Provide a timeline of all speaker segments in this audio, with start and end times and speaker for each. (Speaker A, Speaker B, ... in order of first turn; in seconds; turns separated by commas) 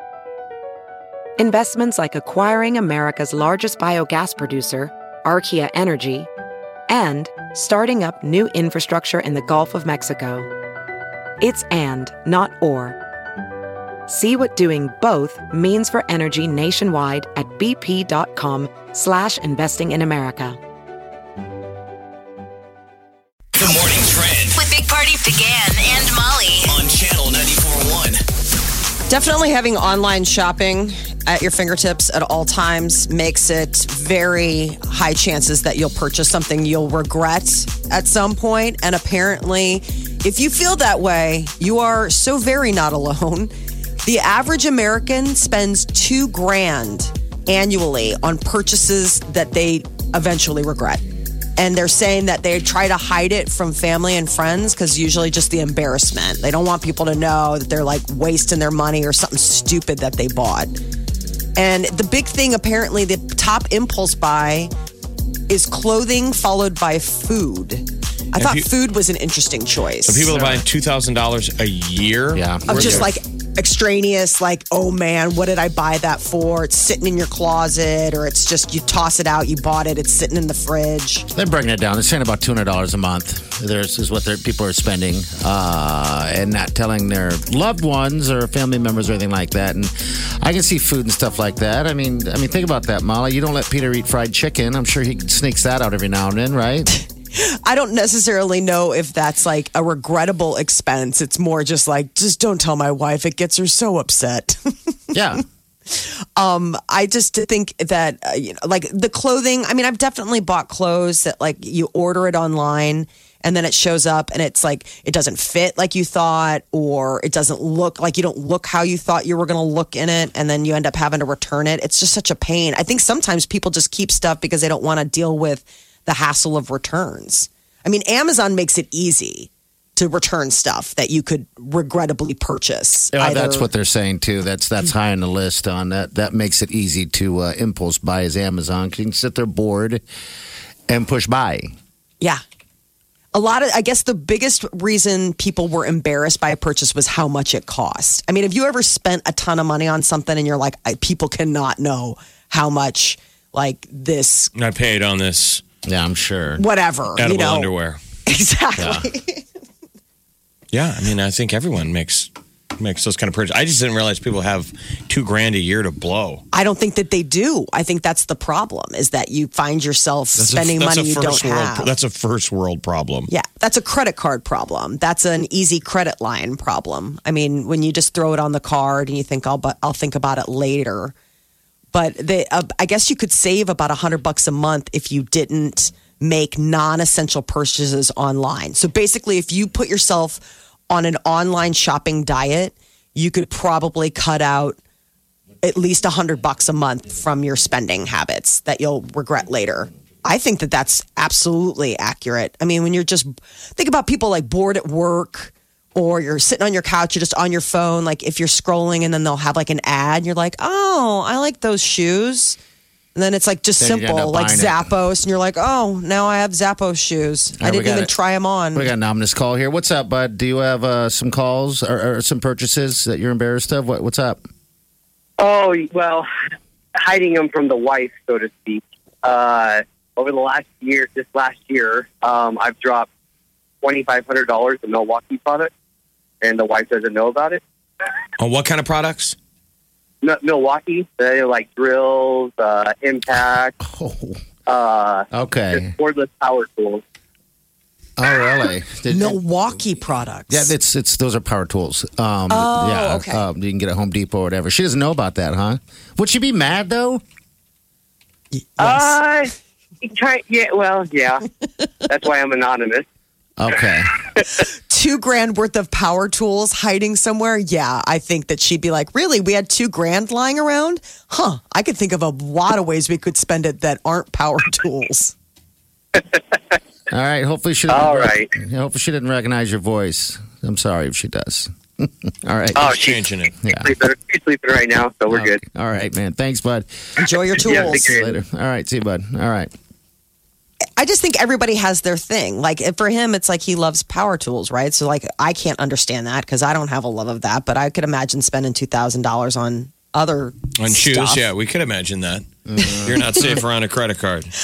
Speaker A: 1.4-6.3, Speaker A: 6.9-10.5, Speaker A: 11.4-13.0, Speaker A: 14.1-20.6, Speaker B: 23.6-24.6, Speaker C: 24.5-26.8, Speaker B: 26.7-28.2, Speaker D: 29.1-43.5, Speaker D: 44.0-51.1, Speaker D: 51.6-60.8, Speaker D: 61.6-64.7, Speaker D: 65.5-70.3, Speaker E: 68.4-68.7, Speaker E: 70.0-73.1, Speaker F: 70.3-70.6, Speaker F: 72.3-73.1, Speaker D: 72.7-81.3, Speaker F: 81.3-96.9, Speaker D: 96.9-105.0, Speaker F: 105.1-105.4, Speaker D: 105.9-133.7, Speaker F: 133.1-140.0, Speaker F: 140.9-141.7, Speaker D: 143.3-154.5, Speaker E: 154.6-155.6, Speaker F: 155.8-156.6, Speaker D: 156.6-157.7, Speaker E: 157.2-158.0, Speaker D: 158.3-159.4, Speaker F: 158.8-159.1, Speaker E: 160.7-166.4, Speaker D: 166.5-171.9, Speaker E: 170.4-173.3, Speaker D: 173.3-181.2, Speaker D: 181.9-194.8, Speaker D: 195.6-212.6, Speaker D: 213.2-218.9, Speaker F: 213.8-214.9, Speaker F: 217.6-218.1, Speaker F: 218.8-224.4, Speaker G: 225.4-226.3, Speaker G: 227.0-233.1, Speaker G: 233.8-235.7, Speaker G: 236.4-237.6, Speaker E: 238.4-239.3, Speaker G: 240.2-243.8, Speaker F: 243.8-244.4, Speaker G: 244.7-247.0, Speaker F: 245.3-245.9, Speaker F: 248.2-249.4, Speaker D: 249.1-250.7, Speaker F: 250.5-257.2, Speaker D: 252.5-253.5, Speaker D: 258.5-259.2, Speaker G: 258.8-261.5, Speaker G: 262.1-263.1, Speaker F: 263.6-264.1, Speaker D: 264.9-275.3, Speaker G: 276.2-276.6, Speaker F: 277.1-282.9, Speaker G: 277.9-278.5, Speaker G: 282.8-285.6, Speaker E: 282.9-283.6, Speaker F: 283.6-283.9, Speaker F: 285.3-286.9, Speaker D: 287.2-288.1, Speaker G: 287.5-288.4, Speaker F: 287.6-289.7, Speaker D: 291.0-301.5, Speaker E: 300.8-302.4, Speaker F: 302.7-303.6, Speaker D: 302.8-303.1, Speaker E: 303.0-304.5